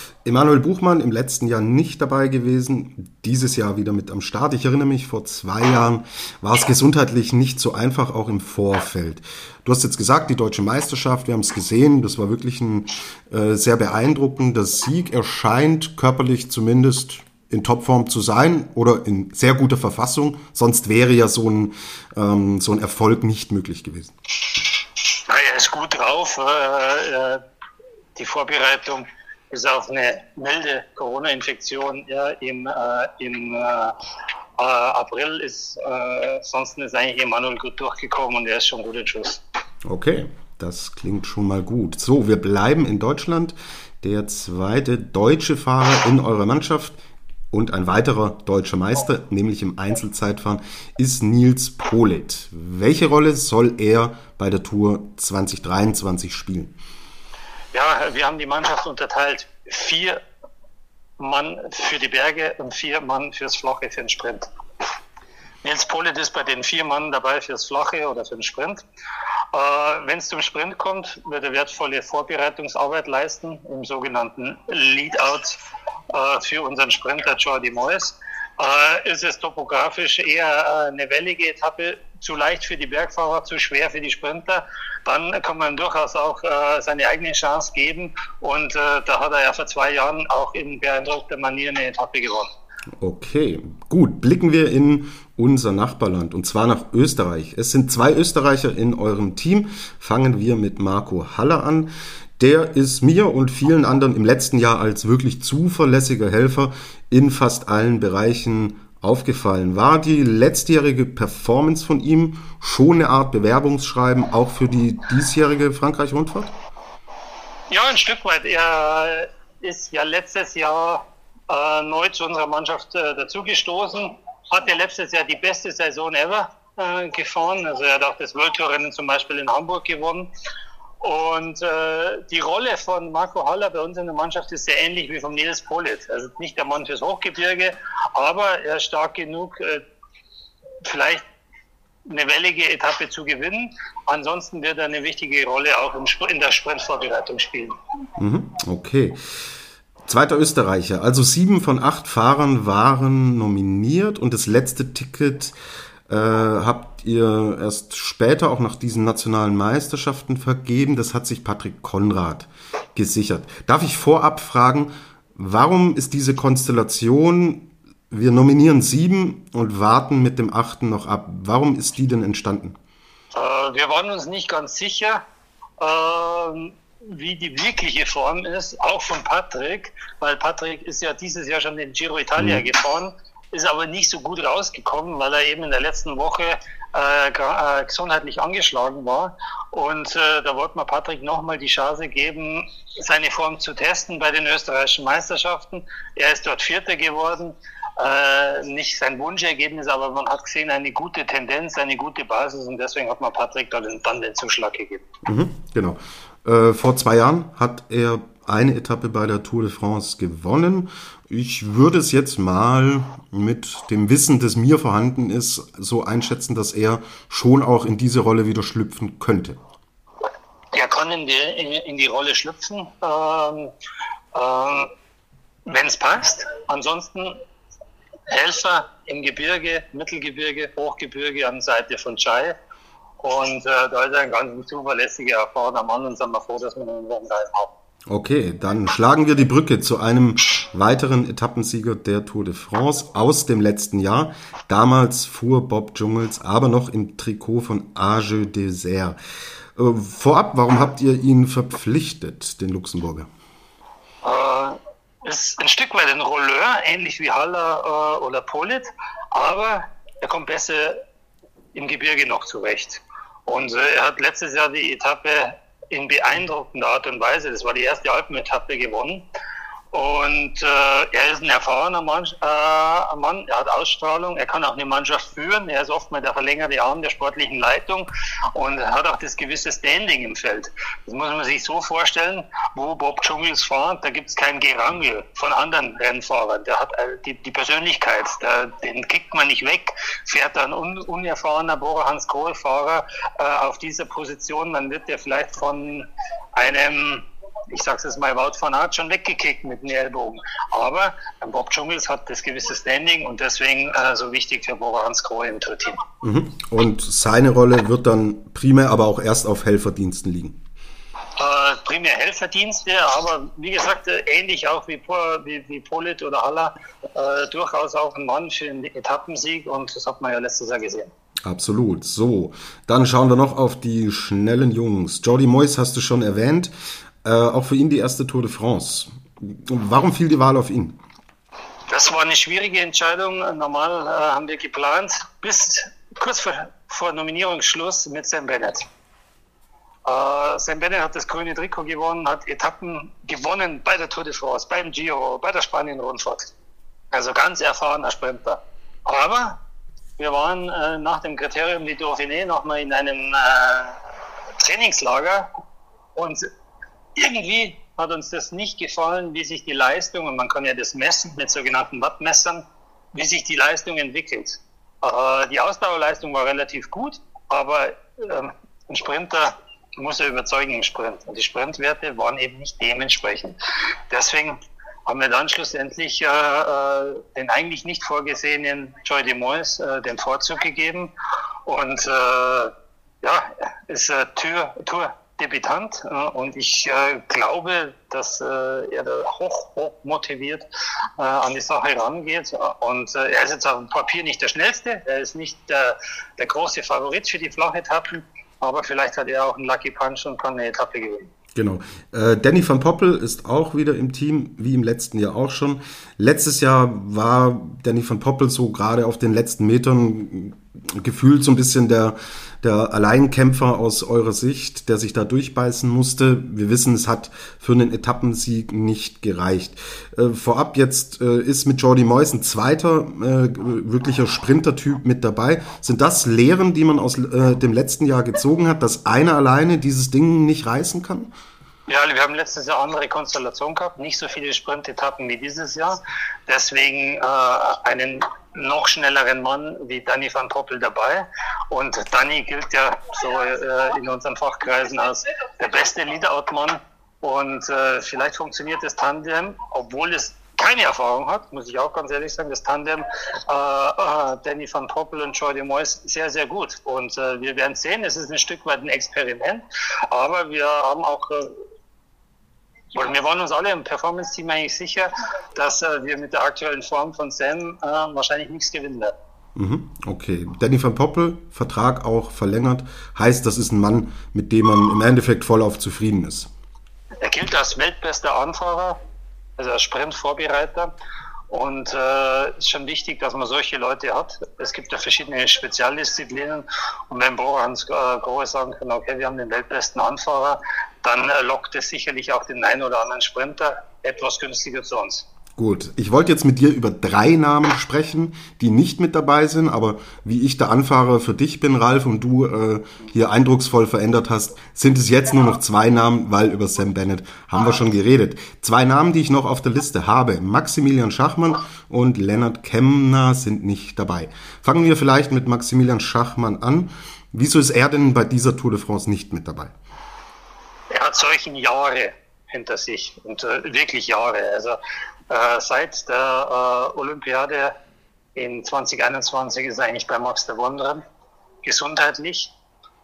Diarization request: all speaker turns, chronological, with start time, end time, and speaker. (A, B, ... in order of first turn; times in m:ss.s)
0:00.2-0:24.1 A
0:25.3-0:27.4 B
0:28.2-0:34.0 B
0:34.6-0:39.4 B
0:39.8-0:47.0 A
0:47.5-0:56.7 A
0:57.7-1:00.2 B
1:01.2-1:04.5 B
1:05.6-1:08.8 B
1:09.5-1:15.6 B
1:16.1-1:32.5 B
1:33.0-1:56.5 A
1:57.7-2:10.3 B
2:11.0-2:19.8 B
2:20.8-2:21.2 B
2:22.1-2:27.8 B
2:28.2-2:29.2 A
2:30.1-2:35.6 A
2:36.1-2:52.8 A
2:53.3-2:55.2 B
2:55.8-3:25.1 B
3:25.3-3:39.6 A
3:40.7-3:43.7 B
3:44.3-3:44.9 B
3:45.7-3:47.4 B
3:48.3-3:52.6 B
3:53.2-3:57.7 B
3:58.1-4:09.2 A
4:09.8-4:13.3 A
4:14.2-4:21.0 B
4:21.8-4:29.2 B
4:29.9-5:06.0 B
5:06.2-5:10.6 A
5:11.4-5:21.1 B
5:21.4-5:26.7 A
5:27.2-5:31.0 A
5:31.9-5:38.8 B
5:40.1-5:46.5 B
5:47.1-5:49.6 B
5:50.2-5:54.0 B
5:54.6-5:55.5 B
5:56.2-5:56.5 B
5:57.2-6:13.6 B
6:14.1-6:21.1 B
6:21.7-6:30.6 B
6:31.2-6:41.3 B
6:41.6-7:11.3 A
7:11.9-7:41.6 B
7:42.9-7:49.1 B
7:49.6-7:56.5 A
7:57.2-7:59.0 B
7:59.6-8:00.9 B
8:01.5-8:15.3 B
8:15.6-8:39.7 A
8:40.9-8:47.7 B
8:48.4-8:51.0 B
8:51.6-8:52.5 B